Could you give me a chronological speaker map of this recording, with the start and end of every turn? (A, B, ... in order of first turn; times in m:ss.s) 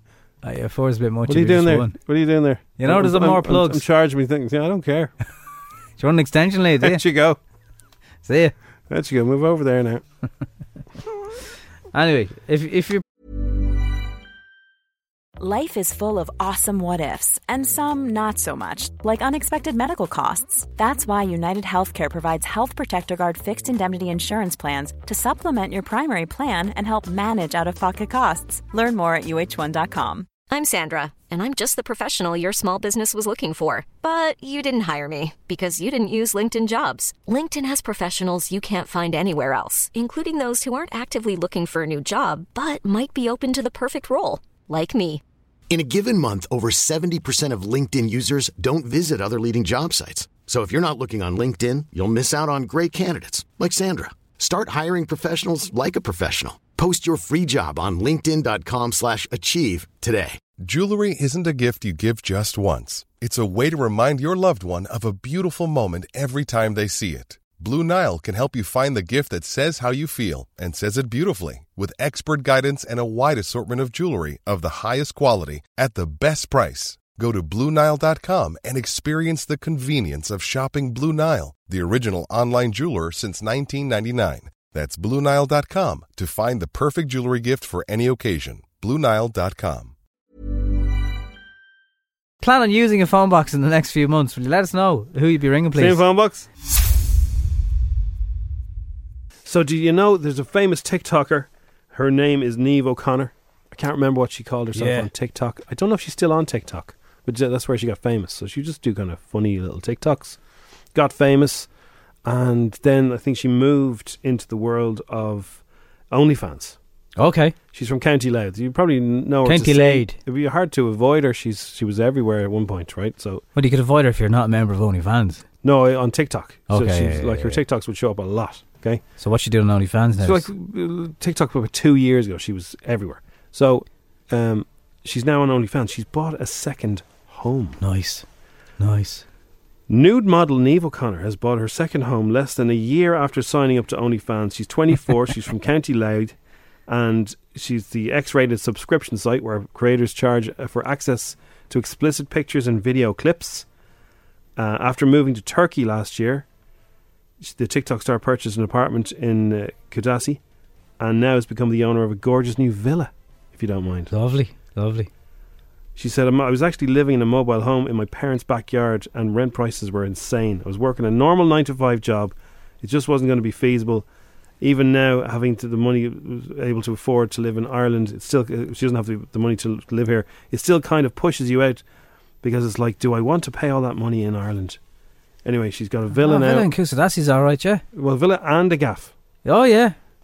0:00.4-0:02.0 A
0:01.3-0:05.1 B
0:02.8-0:03.8 A
0:06.0-0:07.0 A
0:06.8-0:07.4 B
0:08.2-0:08.5 A
0:08.9-0:10.0 B
0:11.9-0:13.0 A
0:15.4-0:30.3 C
0:30.5-0:45.2 D
0:45.7-1:00.4 E
1:00.6-1:29.9 F
1:32.4-1:36.0 A
1:35.8-1:36.5 B
1:39.4-1:50.4 B
1:44.7-1:45.1 A
1:51.0-1:51.7 B
1:52.2-1:56.8 B
1:57.2-1:57.6 A
1:57.7-2:03.4 B
1:59.4-2:00.2 A
2:03.6-2:05.4 A
2:05.6-2:09.0 B
2:06.7-2:07.6 A
2:09.2-2:10.5 A
2:10.2-2:17.8 B
2:17.8-2:18.2 A
2:18.8-2:19.2 A
2:19.9-2:26.4 B
2:26.9-2:33.6 B
2:34.6-2:36.5 B
2:37.4-2:40.4 B
2:41.0-2:44.1 B
2:44.1-2:45.1 A
2:46.0-2:54.1 B
2:54.6-3:01.8 B
3:02.4-3:04.8 B
3:05.4-3:06.7 B
3:06.2-3:07.8 A
3:07.9-3:09.1 B
3:09.4-3:10.0 A